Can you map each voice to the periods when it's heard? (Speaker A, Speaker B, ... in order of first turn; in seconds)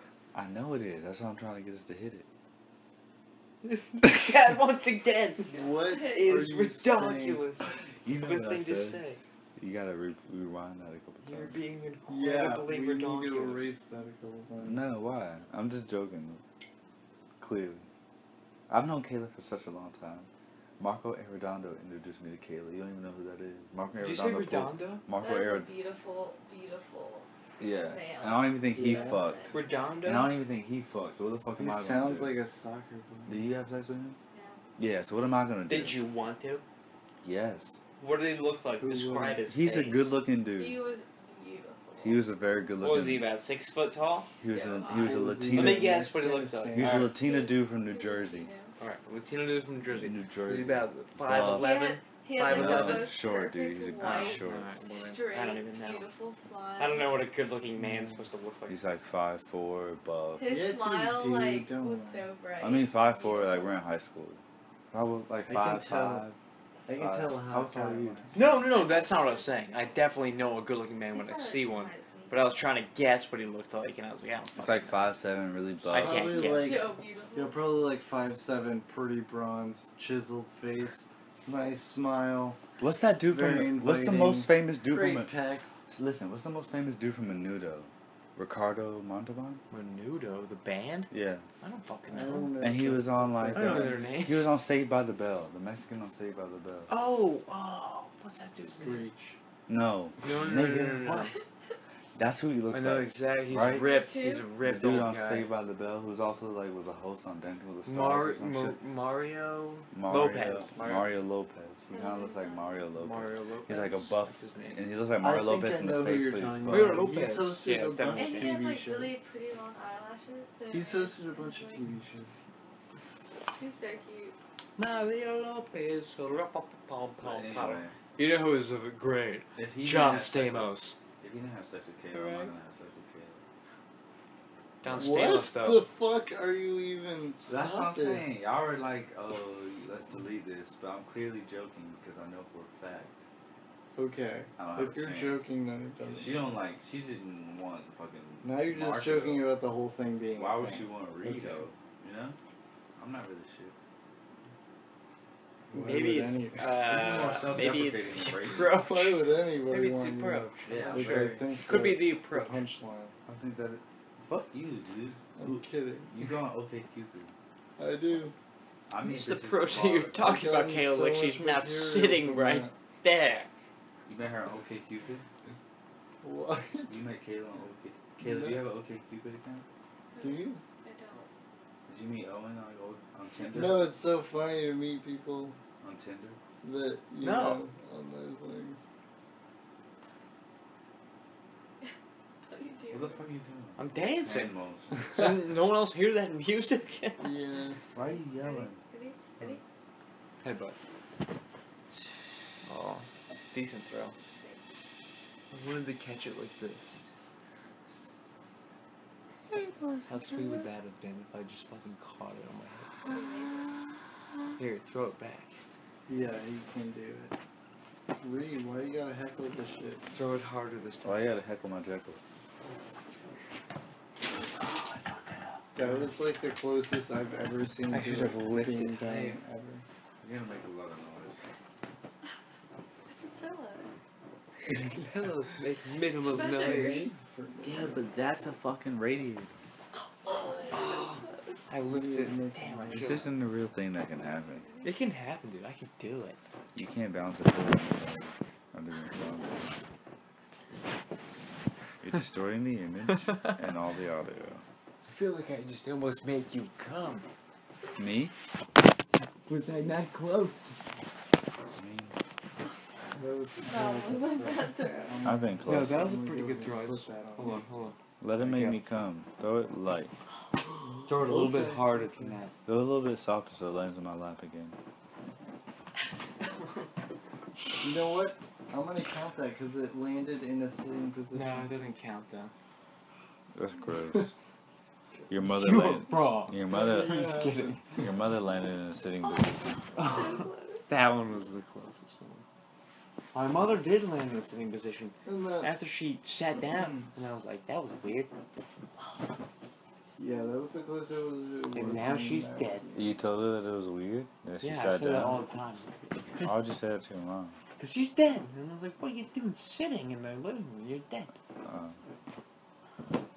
Speaker A: 0.3-2.3, 7.6-9.0, 9.6-11.6, 14.6-16.4, 17.4-17.9, 18.7-25.7, 27.6-32.4, 33.2-34.2, 34.8-36.0, 37.2-37.8, 39.5-40.8, 42.0-43.3, 44.4-45.9, 46.7-48.5, 49.9-51.8, 52.4-54.7, 58.7-60.4, 62.6-66.4, 67.0-68.5, 74.6-76.3, 82.8-85.3, 85.8-89.6, 91.1-91.5, 92.6-96.9, 99.7-101.3, 102.1-103.9, 104.6-108.8, 109.9-117.1, 127.2-128.0, 129.5-133.4, 137.4-143.2, 144.6-145.5, 146.0-149.5, 150.3-152.4, 153.0-153.8, 156.8-158.8, 160.7-161.5, 163.2-167.3, 168.9-170.2, 174.1-175.2, 176.9-179.7, 181.9-183.9, 185.8-186.4, 192.9-195.1, 197.9-198.8, 221.0-222.2, 230.2-231.4, 237.6-239.5, 242.9-244.7, 246.7-249.7, 252.0-254.6, 258.0-258.3, 261.7-262.2, 265.2-266.0, 268.2-270.1, 272.6-274.8, 283.5-284.3, 285.3-287.3, 287.9-289.8, 302.9-305.4, 306.4-307.6, 311.6-312.0
Speaker B: 3.6-9.2, 11.2-13.7, 24.0-25.0, 29.5-30.3, 35.7-36.6, 38.0-40.1, 42.8-44.3, 45.5-47.1, 48.8-53.1, 54.0-56.1, 56.8-58.8, 68.3-75.1, 75.9-76.8, 89.7-92.5, 93.5-94.5, 96.9-99.1, 100.2-101.4, 102.7-105.5, 107.8-111.1, 113.0-114.9, 116.7-118.6, 124.8-131.0, 132.1-132.5, 134.8-135.8, 155.7-162.6, 169.0-173.5, 187.2-187.6, 193.8-197.3, 200.4-200.8, 202.6-204.2, 205.5-207.0, 210.0-213.1, 214.6-215.6, 220.1-221.4, 224.3-226.1, 227.9-229.4, 234.9-237.1, 240.7-243.3, 244.8-246.4, 255.1-257.3, 259.4-260.8, 265.6-269.0, 271.1-272.5, 281.3-282.5, 285.5-288.0, 290.9-292.4, 293.3-298.3, 301.7-302.8, 304.6-306.4, 307.8-311.3
Speaker C: 5.5-7.4, 12.1-14.8, 28.7-29.2, 31.6-33.5, 38.8-39.4, 44.9-47.1, 57.8-58.1, 60.5-62.3, 65.5-66.2, 66.8-68.5, 75.9-82.6, 83.3-85.8, 92.1-94.0, 98.6-99.4, 115.2-119.1, 120.7-122.3, 134.9-138.2, 143.9-146.4, 148.4-151.6, 155.7-156.6, 158.8-163.1, 165.3-166.1, 167.8-168.3, 170.2-172.7, 176.2-177.0, 178.2-178.6, 180.2-180.6, 183.4-185.6, 186.6-188.8, 197.2-197.8, 216.1-217.3, 218.2-220.0, 225.8-229.8, 236.4-238.1, 241.8-243.3, 263.1-267.7, 271.1-272.4, 277.7-281.7, 286.6-288.0, 295.2-295.7, 300.2-303.2
Speaker D: 5.7-6.3, 25.2-29.6, 34.3-34.6, 40.5-42.2, 44.4-45.4, 47.0-48.8, 51.5-57.1, 60.4-63.8, 68.6-69.8, 71.1-72.3, 76.2-77.6, 103.7-104.5, 111.9-112.8, 118.1-122.0, 123.5-124.3, 180.1-181.3, 192.5-193.2, 198.1-199.6, 204.3-204.7, 209.5-210.7, 213.0-213.8, 233.1-233.9, 236.2-237.1, 240.2-241.6, 244.5-244.9, 263.6-265.2, 289.2-290.9, 300.1-300.7